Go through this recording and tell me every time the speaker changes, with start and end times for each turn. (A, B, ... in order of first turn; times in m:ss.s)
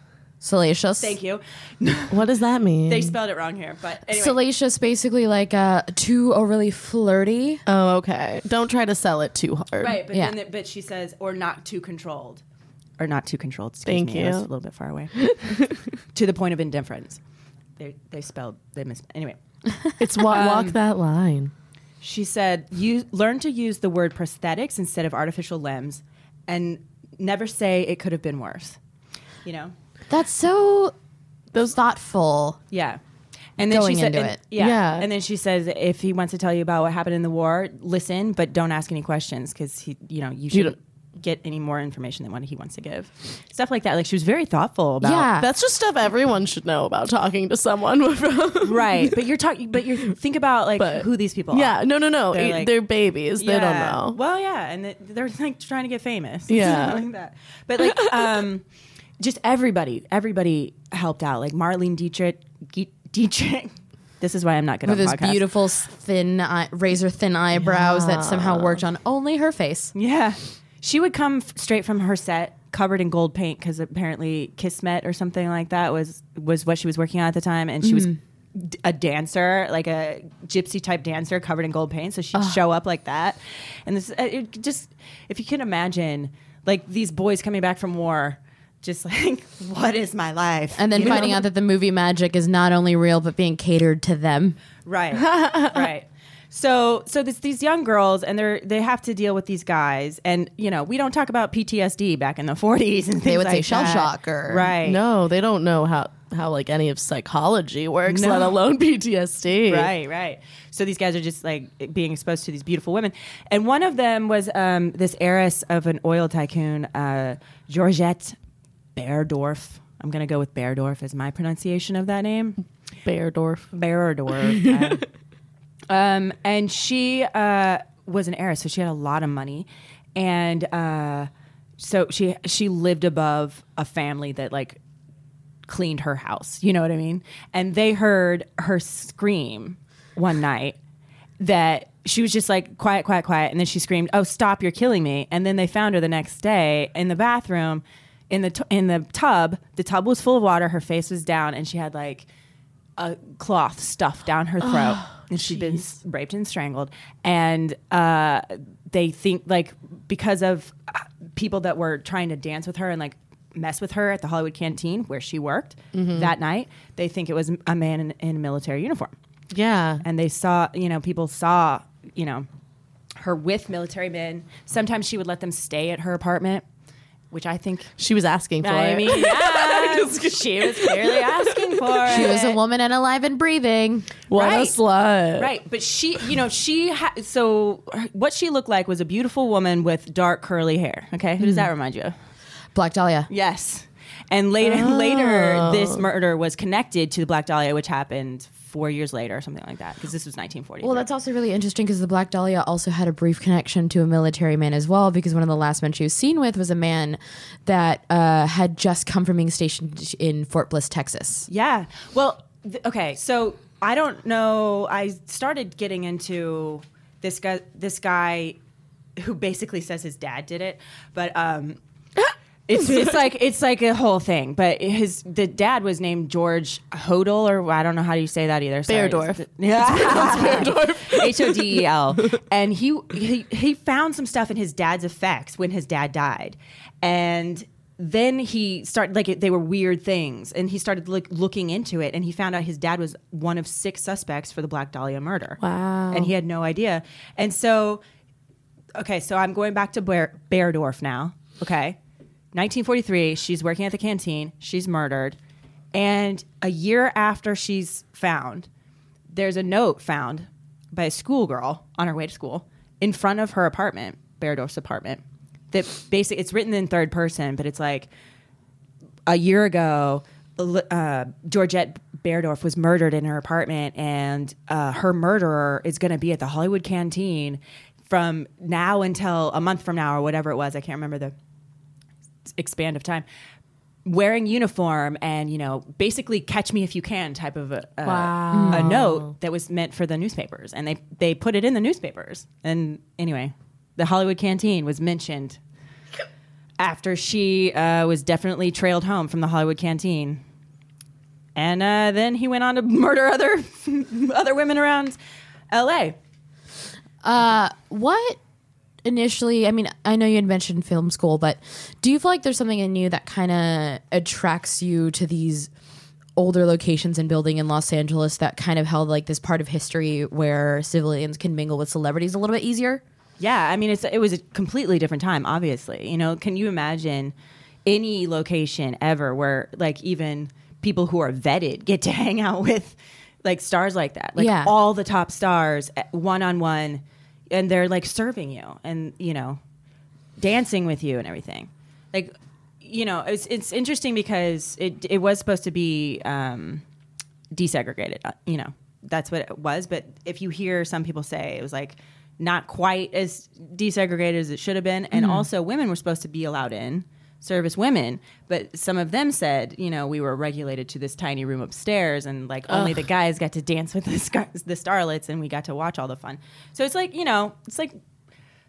0:00.4-0:01.2 A
0:01.0-0:02.2 B
0:02.1-0:03.1 C
0:02.9-0:04.4 B
0:04.1-0:07.6 A
0:07.7-0:10.0 C
0:09.8-0:12.4 B
0:13.0-0:15.3 B
0:13.9-0:14.5 C
0:15.2-0:15.9 C
0:16.1-0:17.2 B
0:17.8-0:19.4 B
0:20.0-0:21.5 C
0:20.3-0:20.8 B
0:22.0-0:28.8 B
0:29.4-0:29.7 B
0:30.1-0:30.9 A
0:31.5-0:32.6 A
0:32.7-0:33.0 B
0:33.6-0:45.3 B
0:33.6-0:34.4 A
0:34.6-0:35.1 C
0:45.0-0:45.5 A
0:45.4-0:49.2 C
0:48.6-0:52.7 B
0:50.8-0:54.2 C
0:53.4-0:58.6 B
0:56.5-0:57.1 C
0:57.8-0:58.3 C
0:59.2-1:05.4 B
1:04.8-1:09.9 A
1:07.6-1:08.8 C
1:10.0-1:31.3 B
1:17.8-1:18.2 A
1:30.8-1:34.6 A
1:31.0-1:31.3 C
1:34.8-1:45.0 B
1:35.1-1:35.9 C
1:43.2-1:44.7 A
1:43.8-1:44.0 C
1:44.8-1:49.9 C
1:48.1-1:48.6 B
1:49.7-1:58.4 B
1:59.0-2:02.6 B
2:03.1-2:03.7 C
2:03.7-2:05.1 B
2:04.5-2:05.0 C
2:05.9-2:14.8 B
2:15.7-2:20.8 B
2:21.4-2:32.3 B
2:33.0-2:49.1 B
2:34.6-2:35.8 C
2:45.9-2:46.3 C
2:49.5-2:50.0 C
2:50.0-2:52.5 B
2:53.2-2:56.6 B
2:57.3-2:57.9 B
2:58.0-3:02.3 C
2:58.6-3:02.6 B
3:02.1-3:04.1 A
3:04.3-3:05.5 C
3:04.3-3:04.8 B
3:05.4-3:12.1 B
3:11.4-3:11.7 A
3:12.8-3:13.3 A
3:13.3-3:21.0 B
3:14.6-3:16.0 C
3:20.8-3:31.5 A
3:31.5-3:38.6 B
3:39.2-3:41.8 B
3:42.7-4:05.6 B
3:42.8-3:43.2 C
3:48.9-3:52.4 C
4:05.6-4:06.3 C
4:06.1-4:08.0 B
4:09.0-4:12.0 B
4:12.5-4:15.4 B
4:15.9-4:18.7 B
4:19.3-4:25.2 B
4:25.7-4:28.1 B
4:29.3-4:41.3 B
4:42.6-4:43.2 B
4:44.0-4:55.6 B
4:48.0-4:49.3 C
4:48.5-4:49.0 A
4:56.8-5:00.4 B
5:01.6-5:05.2 B
5:05.7-5:06.2 B
5:07.2-5:08.4 A
5:09.0-5:15.7 A
5:16.4-5:23.0 A
5:23.4-5:27.3 B
5:27.9-5:39.6 B
5:34.4-5:34.7 A
5:40.4-5:46.8 B
5:47.5-6:08.0 B
5:55.2-5:55.4 A
6:02.7-6:03.0 C